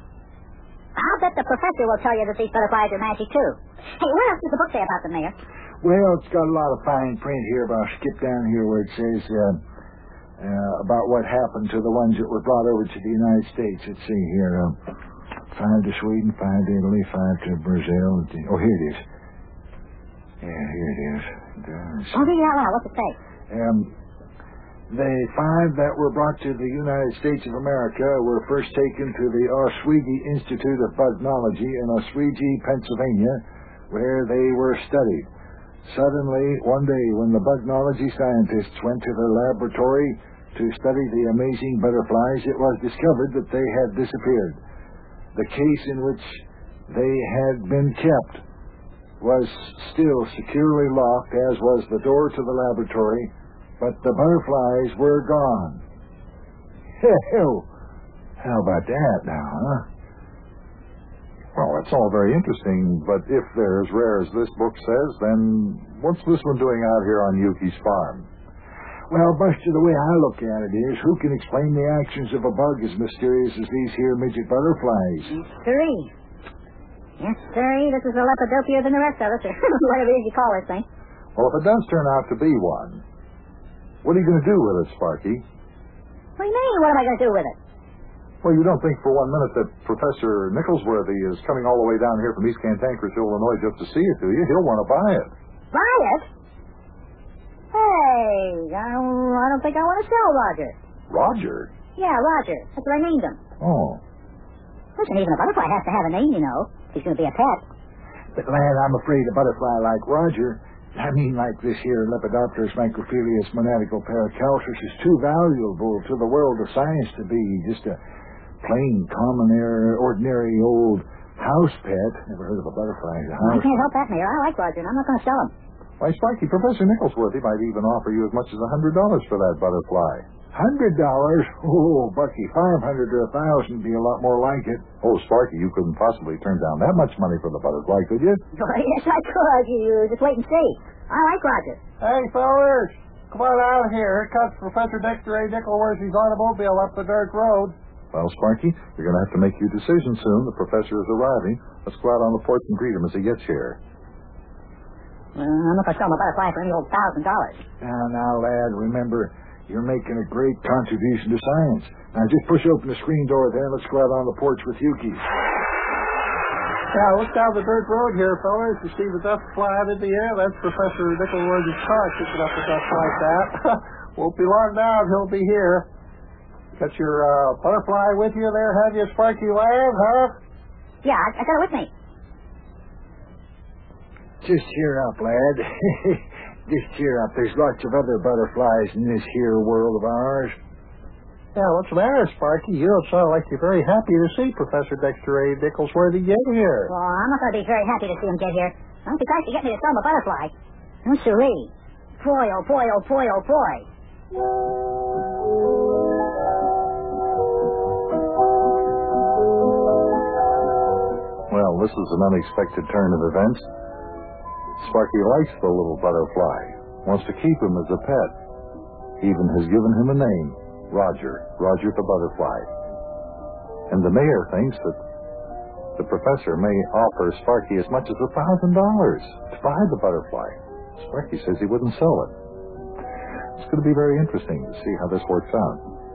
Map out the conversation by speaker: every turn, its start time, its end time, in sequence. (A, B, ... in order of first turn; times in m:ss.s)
0:01.0-0:05.4 A
0:05.8-0:09.6 B
0:10.4-0:14.8 B
0:15.5-0:19.0 B
0:20.4-0:22.2 B
0:22.1-0:23.2 A
0:23.5-0:23.9 B
0:24.9-0:35.3 B
0:35.8-0:44.6 B
0:45.3-0:48.4 B
0:49.2-0:55.8 B
0:57.0-0:57.7 B
0:58.4-0:59.8 B
1:01.5-1:08.3 C
1:09.1-1:15.3 B
1:15.3-1:16.1 A
1:17.2-1:20.8 A
1:21.4-1:23.0 C
1:24.0-1:25.4 C
1:26.4-1:27.6 A
1:28.4-1:35.3 C
1:35.7-1:36.3 A
1:37.7-1:40.8 A
1:41.1-1:41.7 C
1:42.0-1:43.4 A
1:43.6-1:44.0 C
1:45.0-1:47.6 A
1:48.3-1:58.0 B
1:58.6-2:03.7 B
2:03.4-2:05.5 A
2:06.0-2:10.2 C
2:10.5-2:14.8 B
2:15.0-2:18.4 C
2:18.5-2:21.8 A
2:22.0-2:27.7 D
2:28.1-2:33.8 C
2:35.4-2:37.6 A
2:37.8-2:45.2 B
2:46.9-2:55.9 D
2:56.8-3:00.3 D
3:01.0-3:01.9 A
3:04.4-3:10.6 B
3:11.5-3:16.9 D
3:16.9-3:20.5 A
3:21.0-3:23.8 A
3:31.5-3:33.6 C
3:34.8-3:38.3 C
3:39.2-3:42.7 C
3:43.9-3:45.0 C
3:46.0-3:52.3 C
3:53.6-3:55.8 C